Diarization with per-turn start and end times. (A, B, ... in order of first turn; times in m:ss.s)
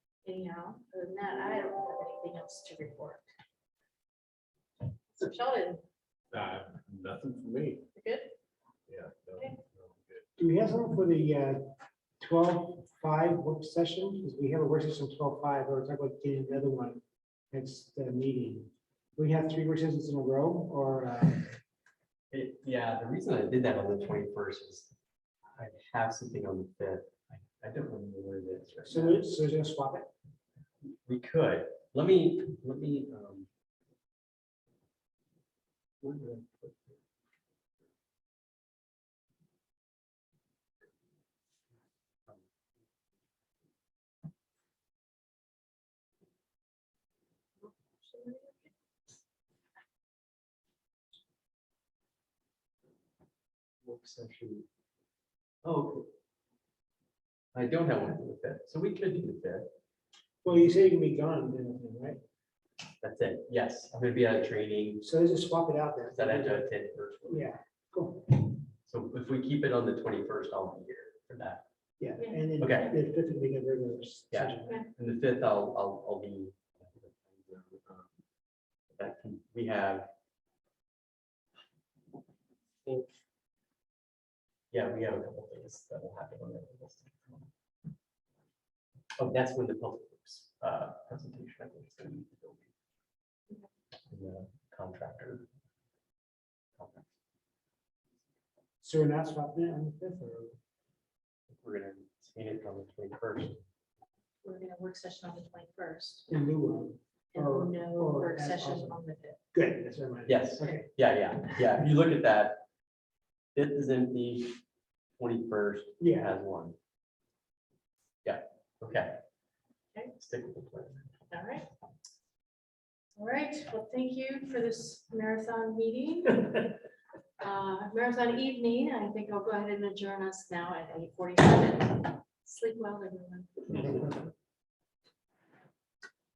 0:00.2-0:03.3 A
0:05.1-0:05.8 A
0:06.3-0:07.8 B
0:07.9-0:08.3 A
0:08.9-0:10.2 B
0:10.4-0:11.6 C
0:12.2-0:17.0 C
0:17.5-0:21.5 C
0:22.3-0:24.9 D
0:25.5-0:29.3 D
0:28.8-0:30.1 C
0:31.0-0:33.5 D
0:36.0-0:36.9 D
0:47.6-0:48.7 A
0:53.8-0:54.7 D
0:55.6-0:56.1 D
0:57.5-0:59.7 D
1:00.4-1:02.2 C
1:03.0-1:05.1 D
1:05.0-1:06.7 C
1:06.1-1:07.5 D
1:07.3-1:08.3 C
1:08.8-1:11.6 D
1:12.0-1:14.7 C
1:12.2-1:12.5 A
1:12.6-1:13.0 D
1:14.3-1:18.1 D
1:19.0-1:20.1 D
1:24.7-1:27.5 D
1:29.2-1:32.7 D
1:34.1-1:35.5 D
1:36.8-1:37.1 D
1:38.8-1:40.6 C
1:41.6-1:43.6 D
1:44.4-1:46.4 A
1:46.3-1:49.0 C
1:47.3-1:49.4 A
1:49.5-1:50.8 C
1:50.3-1:52.6 D
1:50.6-1:50.8 A
1:53.5-1:54.6 D
1:55.2-1:56.8 D
1:56.0-1:56.3 C
1:58.2-1:59.2 D
2:00.2-2:01.0 D
2:01.3-2:01.7 A
2:03.2-2:06.7 A
2:07.4-2:14.0 A